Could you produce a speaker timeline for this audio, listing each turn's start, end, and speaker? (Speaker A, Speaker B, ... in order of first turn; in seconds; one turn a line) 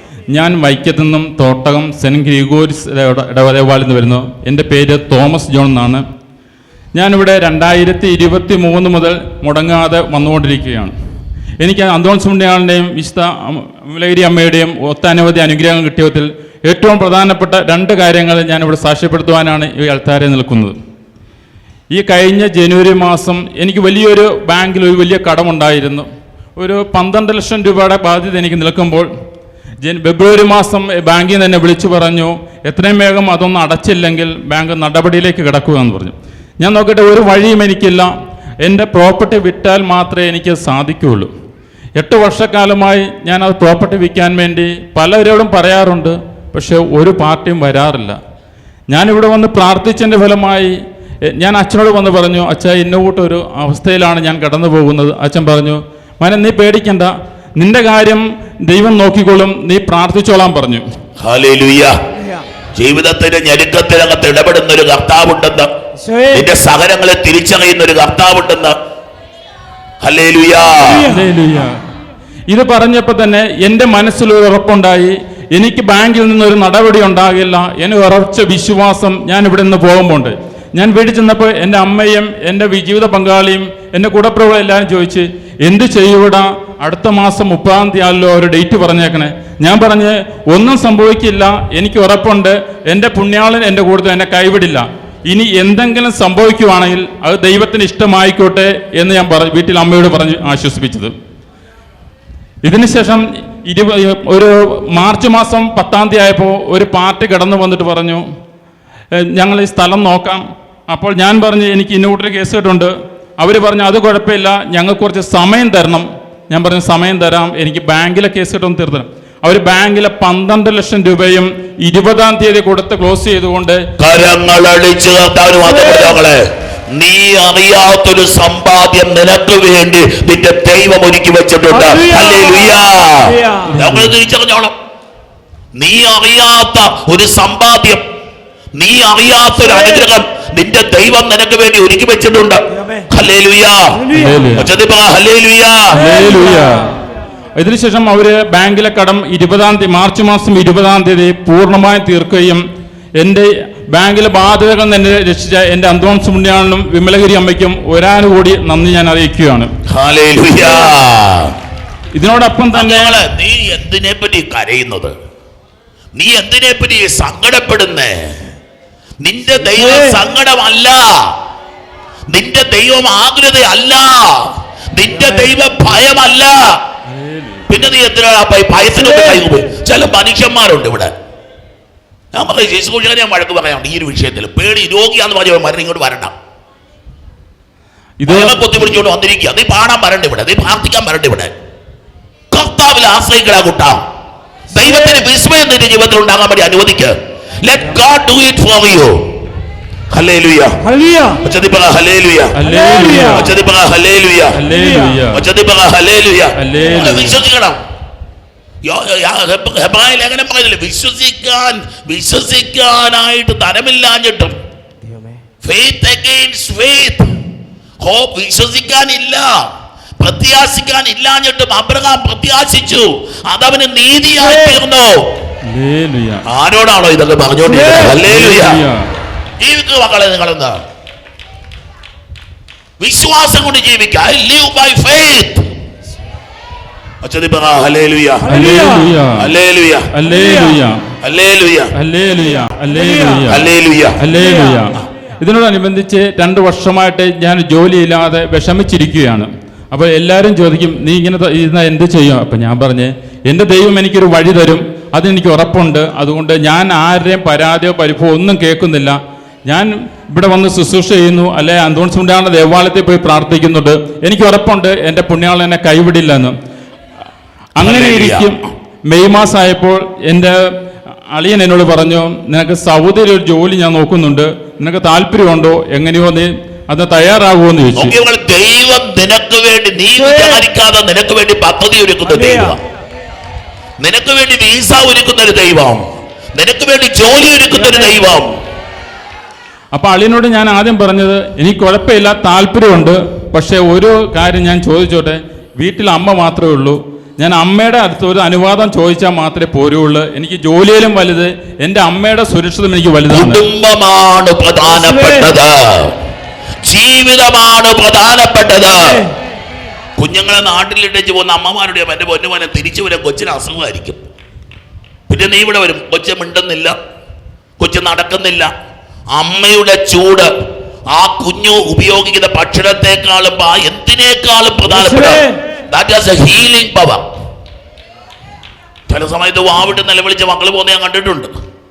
Speaker A: 0.3-6.0
Speaker A: 6.9-10.9
Speaker A: 11.6-20.7
Speaker A: 21.9-29.1
Speaker A: 29.8-38.1
Speaker A: 38.6-41.3
Speaker A: 42.0-48.2
Speaker A: 48.9-50.7
Speaker A: 51.3-60.8
Speaker B: 61.2-61.9
Speaker B: 62.8-65.7
Speaker C: 66.0-66.4
Speaker B: 66.3-68.7
Speaker B: 70.0-71.1
Speaker A: 71.0-71.8
Speaker A: 72.5-101.1
Speaker A: 102.6-108.2
Speaker A: 109.1-123.8
Speaker B: 124.0-134.7
Speaker C: 131.7-132.7
Speaker C: 133.3-133.7
Speaker A: 133.8-134.1
Speaker B: 135.7-138.0
Speaker B: 138.7-146.1
Speaker A: 144.1-144.7
Speaker A: 145.9-146.9
Speaker A: 147.6-152.6
Speaker A: 153.2-159.7
Speaker B: 159.9-161.5
Speaker A: 162.1-163.2
Speaker B: 162.7-165.1
Speaker B: 166.1-168.3
Speaker B: 169.2-171.3
Speaker C: 169.8-170.2
Speaker B: 172.3-176.8
Speaker A: 177.1-177.7
Speaker B: 177.7-181.1
Speaker B: 182.3-186.3
Speaker A: 188.2-189.0
Speaker B: 188.3-191.5
Speaker B: 192.5-194.0
Speaker B: 194.7-199.2
Speaker B: 200.1-200.8
Speaker C: 200.9-201.4
Speaker B: 201.4-202.5
Speaker A: 202.5-203.5
Speaker C: 202.7-203.3
Speaker B: 203.2-204.6
Speaker A: 204.5-205.4
Speaker B: 205.3-207.8
Speaker A: 206.6-207.4
Speaker B: 208.8-214.5
Speaker B: 215.6-217.3
Speaker B: 218.0-219.7
Speaker B: 220.2-225.2
Speaker A: 225.7-226.4
Speaker B: 226.5-228.8
Speaker C: 227.7-228.0
Speaker A: 228.1-229.0
Speaker B: 229.6-230.8
Speaker B: 233.0-235.7
Speaker B: 237.2-238.6
Speaker A: 238.5-239.5
Speaker C: 238.6-239.0
Speaker B: 239.4-240.1
Speaker A: 240.1-241.0
Speaker B: 241.2-241.9
Speaker A: 241.9-243.7
Speaker B: 243.5-244.3
Speaker A: 244.2-266.5
Speaker A: 267.8-270.6
Speaker B: 267.8-268.5
Speaker A: 271.3-278.1
Speaker B: 278.0-282.8
Speaker C: 282.4-282.7
Speaker B: 284.0-286.0
Speaker B: 286.5-288.5
Speaker A: 289.9-303.6
Speaker B: 303.3-306.1
Speaker B: 306.8-309.2
Speaker B: 310.2-314.2
Speaker B: 315.3-316.9
Speaker B: 317.8-318.7
Speaker B: 319.3-320.5
Speaker B: 321.1-327.2
Speaker B: 329.1-331.5